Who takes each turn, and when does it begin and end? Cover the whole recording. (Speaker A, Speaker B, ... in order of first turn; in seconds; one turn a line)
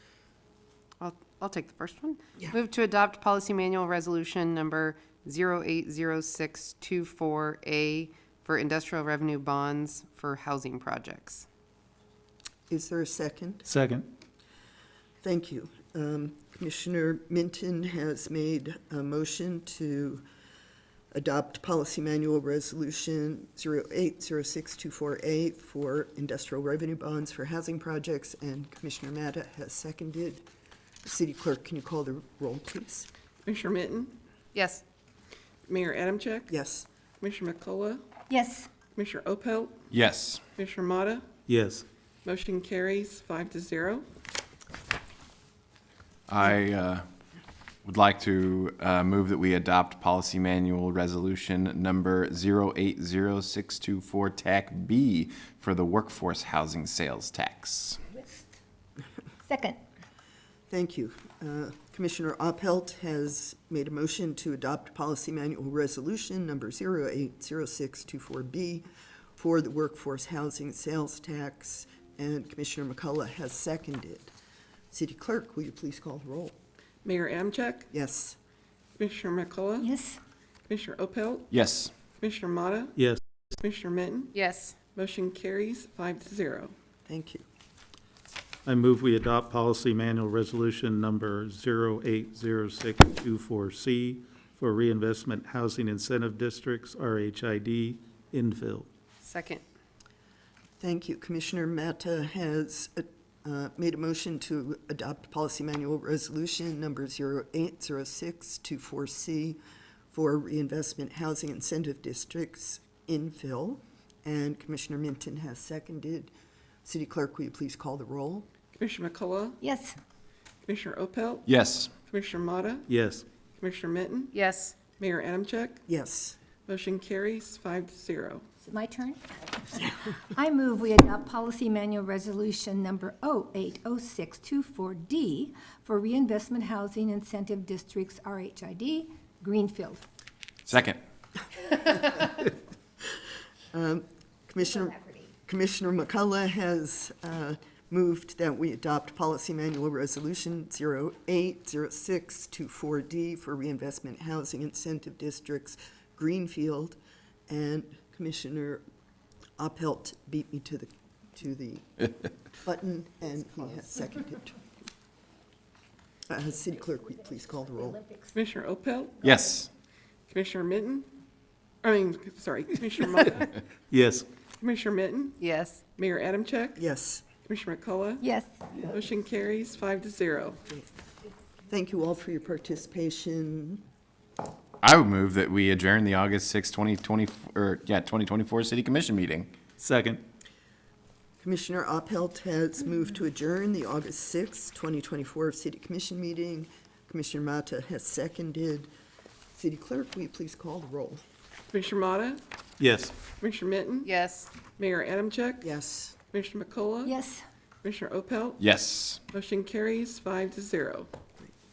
Speaker A: 1.0-11.5
Speaker B: 12.7-13.7
Speaker C: 13.6-14.1
Speaker B: 15.2-20.2
Speaker B: 21.1-30.4
Speaker B: 31.1-33.1
Speaker D: 33.5-34.1
Speaker A: 34.5-34.9
Speaker D: 35.7-36.5
Speaker B: 36.5-36.9
Speaker D: 37.2-38.0
Speaker E: 38.3-38.7
Speaker D: 39.0-39.8
Speaker F: 39.9-40.4
Speaker D: 40.6-41.2
Speaker C: 41.5-41.8
Speaker D: 42.2-44.0
Speaker F: 46.3-47.0
Speaker F: 47.9-58.0
Speaker E: 58.2-58.4
Speaker E: 59.5-59.8
Speaker B: 60.7-68.8
Speaker B: 69.4-74.3
Speaker B: 74.9-76.5
Speaker D: 77.0-77.9
Speaker B: 77.9-78.4
Speaker D: 79.0-79.9
Speaker E: 79.8-80.2
Speaker D: 80.7-81.5
Speaker F: 81.5-81.9
Speaker D: 82.2-83.0
Speaker D: 83.6-84.3
Speaker A: 84.3-84.8
Speaker D: 84.9-86.7
Speaker B: 87.1-87.5
Speaker C: 88.7-98.9
Speaker A: 99.2-99.7
Speaker B: 100.8-109.6
Speaker B: 110.1-116.3
Speaker B: 116.8-118.5
Speaker D: 118.8-119.6
Speaker E: 119.6-120.0
Speaker D: 120.7-121.5
Speaker F: 121.5-121.9
Speaker D: 122.1-122.9
Speaker C: 122.9-123.2
Speaker D: 123.6-124.3
Speaker A: 124.3-124.8
Speaker D: 124.9-125.8
Speaker B: 125.9-126.4
Speaker D: 126.7-128.4
Speaker E: 128.6-129.2
Speaker E: 129.8-140.0
Speaker F: 140.7-141.0
Speaker B: 143.7-157.0
Speaker B: 157.5-158.8
Speaker B: 159.6-162.1
Speaker B: 162.6-164.6
Speaker B: 166.3-168.0
Speaker D: 168.3-169.2
Speaker F: 169.2-169.7
Speaker D: 170.3-171.1
Speaker D: 171.8-173.6
Speaker C: 173.9-174.3
Speaker D: 174.6-175.4
Speaker A: 175.4-175.8
Speaker D: 176.0-176.8
Speaker B: 176.8-177.2
Speaker D: 177.5-178.3
Speaker E: 178.2-178.6
Speaker D: 178.8-180.6
Speaker B: 181.7-183.8
Speaker F: 184.8-189.5
Speaker C: 189.8-190.2
Speaker B: 191.4-198.9
Speaker B: 199.6-201.2
Speaker D: 201.7-202.4
Speaker C: 202.8-203.1
Speaker D: 203.4-204.1
Speaker A: 204.0-204.5
Speaker D: 204.8-205.7
Speaker B: 205.6-206.1
Speaker D: 206.3-207.2
Speaker E: 207.1-207.4
Speaker D: 207.8-208.6
Speaker F: 208.6-209.2
Speaker D: 209.3-211.1